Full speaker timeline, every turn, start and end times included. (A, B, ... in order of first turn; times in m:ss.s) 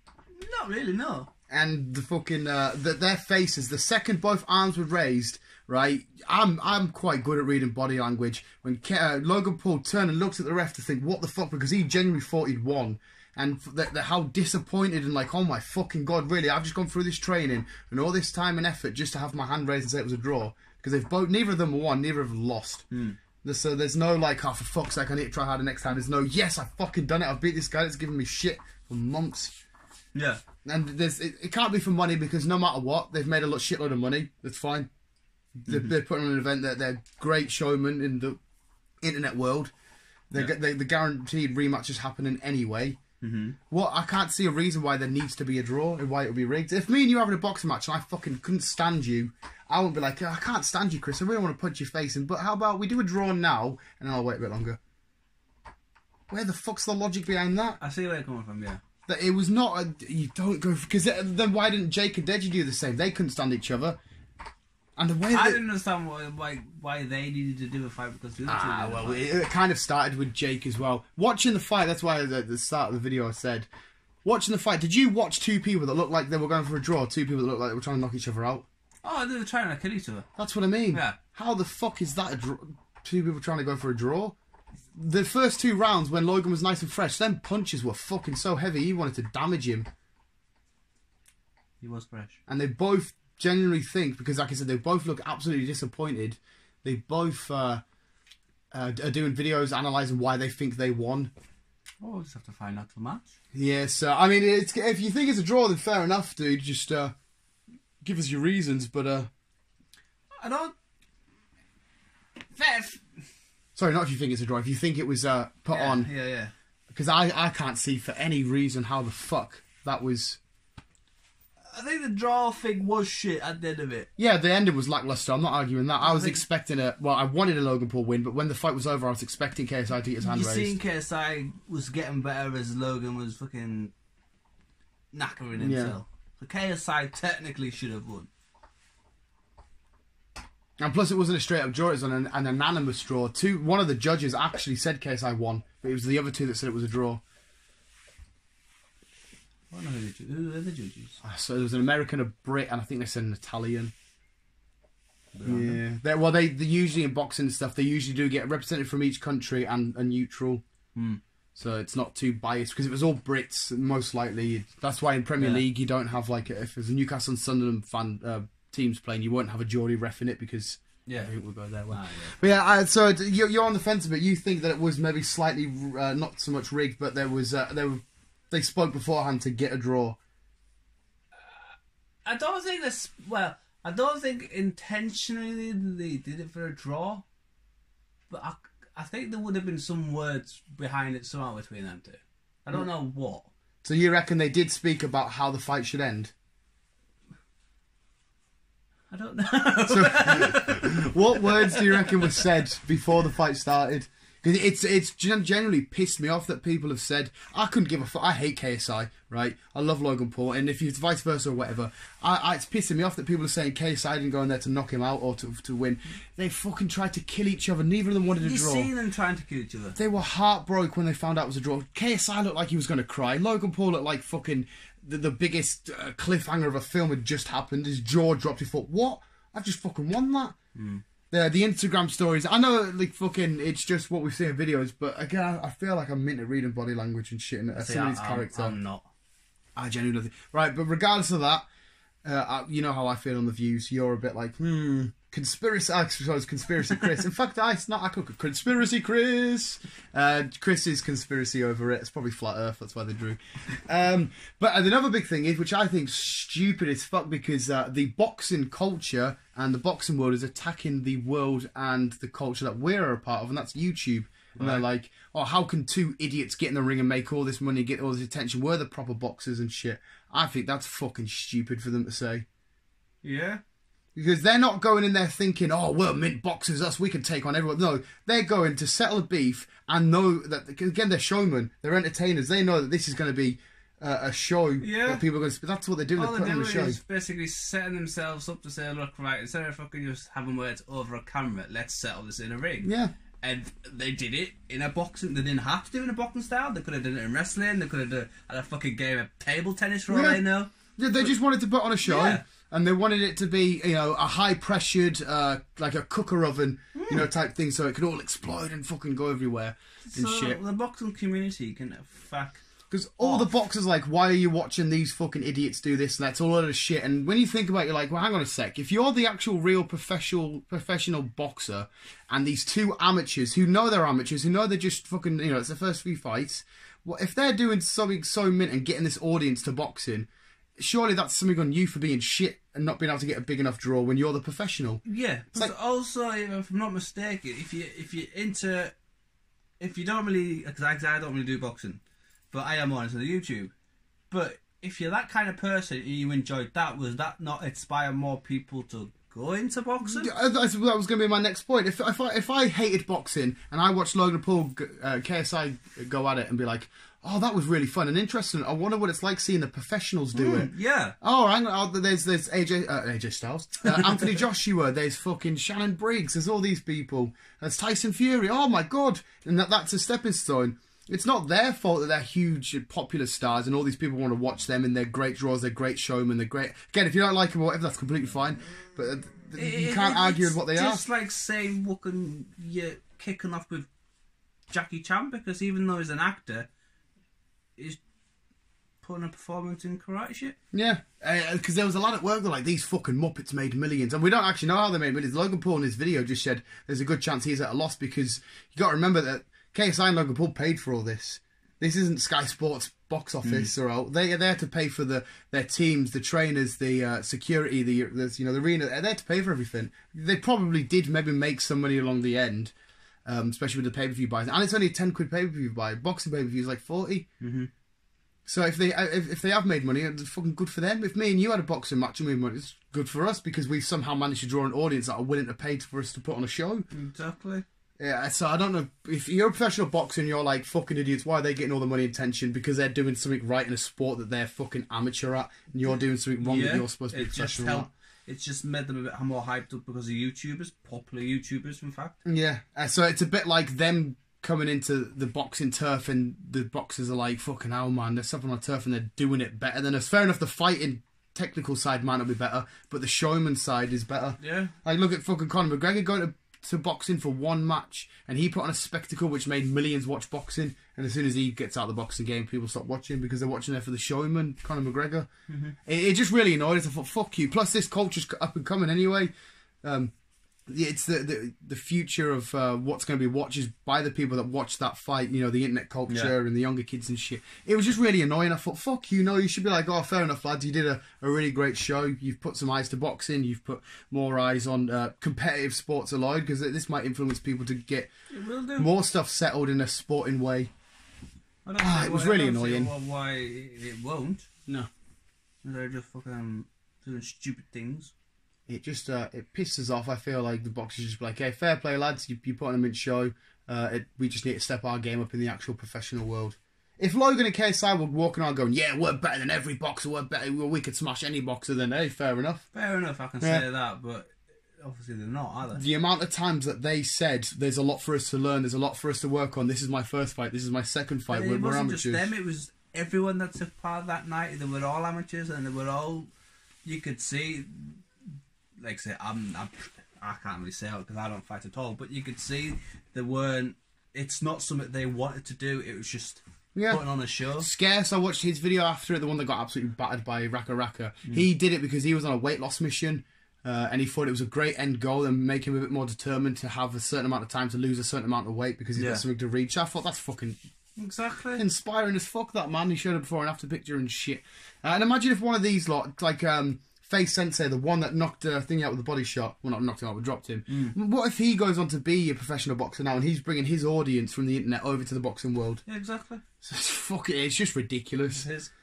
0:00.3-0:01.3 A
0:01.5-0:29.5 B
0:22.9-0:23.2 A
0:30.1-0:30.5 A
0:30.5-0:34.9 B
0:35.6-0:38.4 B
0:35.7-0:35.9 A
0:39.0-0:39.7 B
0:40.3-0:43.0 B
0:43.2-0:43.6 A
0:43.6-0:54.8 B
0:56.3-0:57.8 B
0:57.8-0:58.8 A
0:59.0-1:04.0 B
1:05.0-1:05.6 B
1:05.3-1:09.2 A
1:08.4-1:13.7 B
1:14.2-1:18.6 B
1:19.0-1:20.2 A
1:20.3-1:24.4 B
1:20.9-1:21.2 A
1:25.0-1:29.9 B
1:31.8-1:32.4 A
1:32.4-1:37.8 B
1:38.7-1:41.3 B
1:42.0-1:43.3 A
1:43.5-1:47.2 B
1:48.0-1:49.3 B
1:50.4-1:50.7 A
1:52.5-1:53.0 A
1:53.7-1:56.1 B
1:55.7-1:56.5 A
1:56.9-2:00.4 B
2:01.7-2:04.1 A
2:04.2-2:10.8 B
2:06.0-2:06.4 A
2:10.2-2:13.9 A
2:15.1-2:18.3 A
2:15.6-2:16.0 B
2:20.8-2:27.2 B
2:29.7-2:31.2 A
2:31.2-2:33.9 B
2:35.3-2:35.8 A
2:35.4-2:40.6 B
2:40.9-2:41.2 A
2:41.5-3:00.2 B
2:51.9-2:52.3 A
3:01.3-3:01.7 A
3:02.2-3:07.2 A
3:08.3-3:13.5 A
3:13.8-3:16.3 B
3:19.1-3:22.6 A
3:19.9-3:38.9 B
3:38.4-3:39.9 A
3:39.9-3:50.6 B
3:50.7-3:51.0 A
3:51.2-3:58.8 B
3:57.8-3:59.1 A
3:59.8-4:01.6 B
4:02.2-4:32.4 B
4:24.5-4:24.9 A
4:33.2-4:33.6 A
4:34.1-4:47.0 B
4:44.8-4:45.2 A
4:46.2-4:52.9 A
4:52.8-4:53.1 B
4:53.4-5:01.4 A
5:00.1-5:10.6 B
5:02.0-5:02.6 A
5:06.9-5:07.3 A
5:10.1-5:12.6 A
5:12.8-5:35.0 B
5:13.2-5:13.5 A
5:35.0-5:38.9 A
5:39.8-5:43.7 A
5:44.3-5:50.3 A
5:50.0-6:21.0 B
6:00.3-6:01.1 A
6:03.8-6:04.4 A
6:19.6-6:23.9 A
6:24.7-6:26.7 A
6:29.0-6:30.6 A
6:30.7-6:52.7 B
6:43.4-6:43.7 A
6:53.2-6:57.3 B
6:57.4-6:57.7 A
6:58.4-7:06.9 B
7:06.9-7:07.6 A
7:08.0-7:17.9 B
7:16.4-7:22.2 A
7:22.2-7:49.3 B
7:34.4-7:34.7 A
7:45.5-7:45.8 A
7:49.8-7:50.1 B
7:50.7-8:08.1 B
7:56.1-7:56.3 A
8:08.3-8:08.9 A
8:08.8-8:10.7 B
8:11.6-8:14.5 A
8:11.8-8:12.9 B
8:15.6-8:18.1 A
8:18.7-8:32.6 B
8:32.7-8:35.8 A
8:33.4-8:33.7 B
8:35.7-8:42.3 B
8:41.3-8:46.3 A
8:46.8-8:48.0 A
8:48.8-8:57.7 A
8:56.7-9:10.6 B
9:09.0-9:09.2 A
9:11.0-9:11.6 A
9:11.6-9:25.8 B
9:20.7-9:20.9 A
9:25.9-9:26.4 A
9:26.5-9:28.5 B
9:28.4-9:28.7 A